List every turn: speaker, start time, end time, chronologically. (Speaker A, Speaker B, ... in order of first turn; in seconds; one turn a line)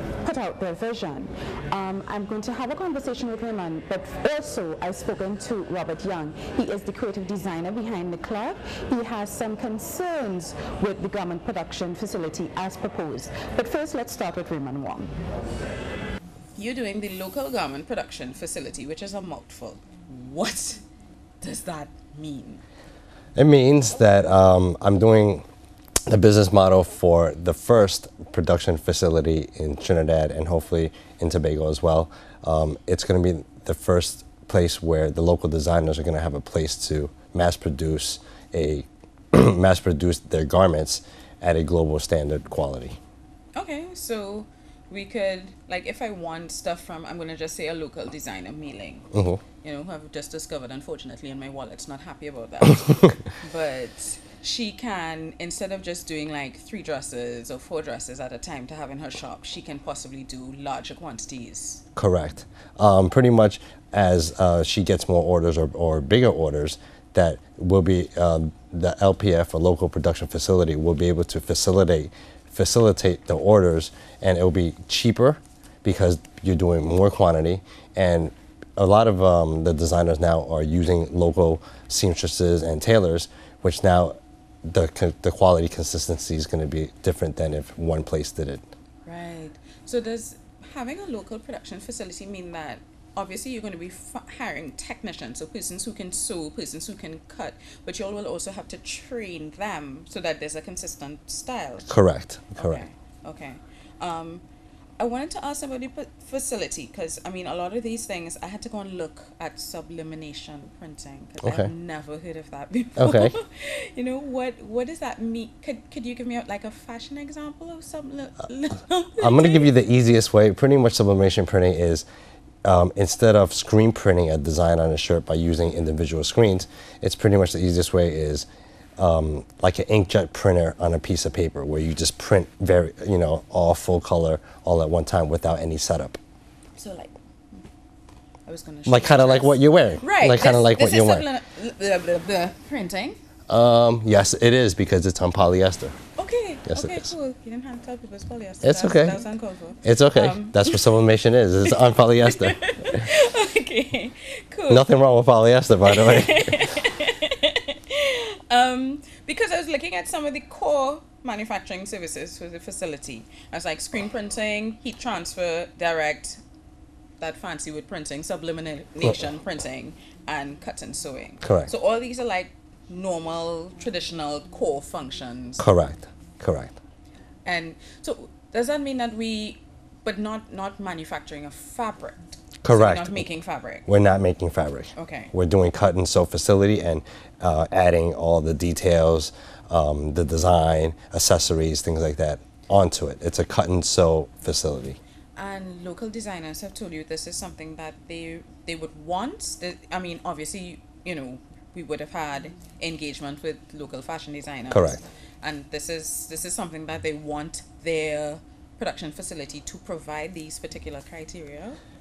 Speaker A: 0.2-15.1
Speaker B: 16.6-20.8
Speaker B: 21.4-22.6
Speaker C: 23.4-25.4
Speaker C: 26.1-43.0
Speaker B: 43.5-49.1
Speaker C: 49.1-49.4
Speaker B: 49.6-61.8
Speaker C: 62.0-88.6
Speaker B: 89.0-101.9
Speaker C: 101.9-102.8
Speaker B: 102.6-104.4
Speaker B: 105.0-119.7
Speaker C: 111.4-111.7
Speaker C: 113.0-113.3
Speaker C: 119.2-122.0
Speaker C: 122.7-128.4
Speaker C: 129.0-136.2
Speaker B: 136.8-137.6
Speaker B: 138.4-143.2
Speaker C: 138.9-141.2
Speaker C: 143.5-146.0
Speaker B: 146.2-150.9
Speaker C: 146.7-147.1
Speaker C: 148.6-149.2
Speaker C: 149.8-153.0
Speaker B: 151.7-154.9
Speaker C: 154.7-156.7
Speaker B: 155.9-166.4
Speaker B: 167.2-175.7
Speaker C: 171.4-171.7
Speaker C: 175.6-176.7
Speaker B: 177.4-183.9
Speaker C: 182.6-183.2
Speaker C: 183.9-195.0
Speaker B: 184.9-185.3
Speaker B: 195.3-211.8
Speaker C: 204.7-205.0